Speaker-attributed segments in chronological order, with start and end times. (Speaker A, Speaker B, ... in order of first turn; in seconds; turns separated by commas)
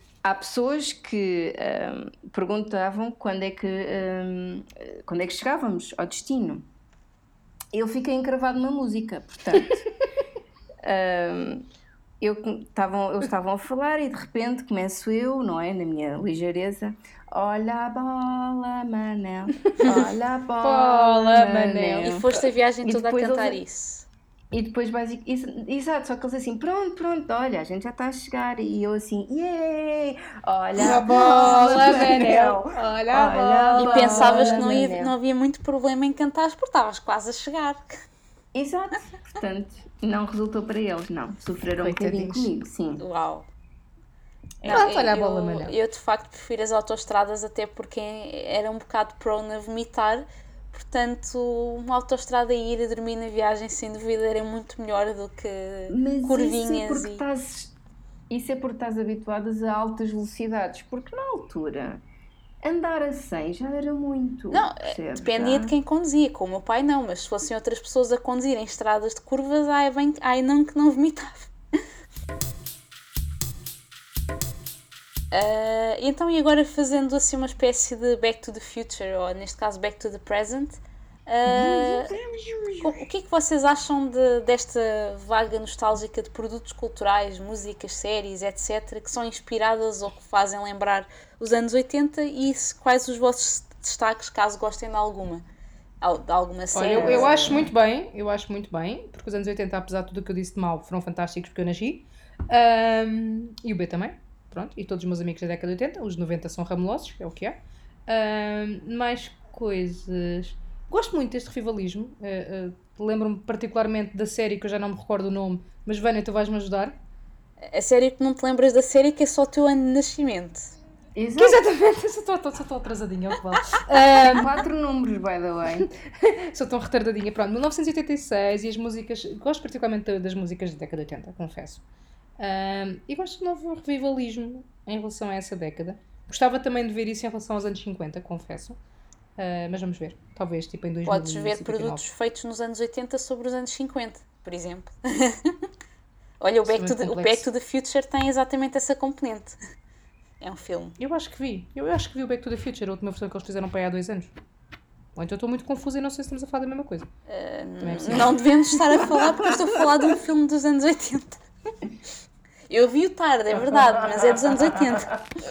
Speaker A: 0.2-6.7, Speaker A: 7.7-9.8, Speaker A: 10.8-11.7, Speaker A: 12.2-22.2, Speaker B: 19.8-20.1, Speaker C: 20.6-22.1, Speaker B: 22.0-24.1, Speaker A: 22.8-23.6, Speaker A: 24.5-35.1, Speaker B: 30.8-32.0, Speaker C: 30.8-34.7, Speaker B: 33.8-37.9, Speaker A: 38.5-43.0, Speaker C: 41.8-42.5, Speaker B: 43.0-43.5, Speaker B: 44.6-57.2, Speaker C: 44.7-45.8, Speaker A: 55.9-57.7, Speaker A: 58.3-62.0, Speaker A: 62.6-65.7, Speaker B: 64.5-71.5, Speaker B: 75.3-82.1, Speaker A: 81.5-83.0, Speaker B: 82.8-95.5, Speaker B: 96.0-97.4, Speaker C: 96.7-117.0, Speaker A: 96.8-97.7, Speaker B: 117.7-120.7, Speaker A: 121.2-121.7, Speaker C: 121.4-124.5, Speaker A: 124.2-125.9, Speaker C: 126.2-131.8, Speaker C: 132.4-138.8, Speaker C: 139.4-142.0, Speaker B: 141.1-145.6, Speaker B: 146.4-149.6, Speaker C: 146.6-147.5, Speaker B: 150.4-151.0, Speaker C: 151.0-154.3, Speaker C: 155.2-157.1, Speaker B: 157.3-161.4, Speaker C: 157.8-158.4, Speaker B: 162.7-165.2, Speaker A: 163.7-165.0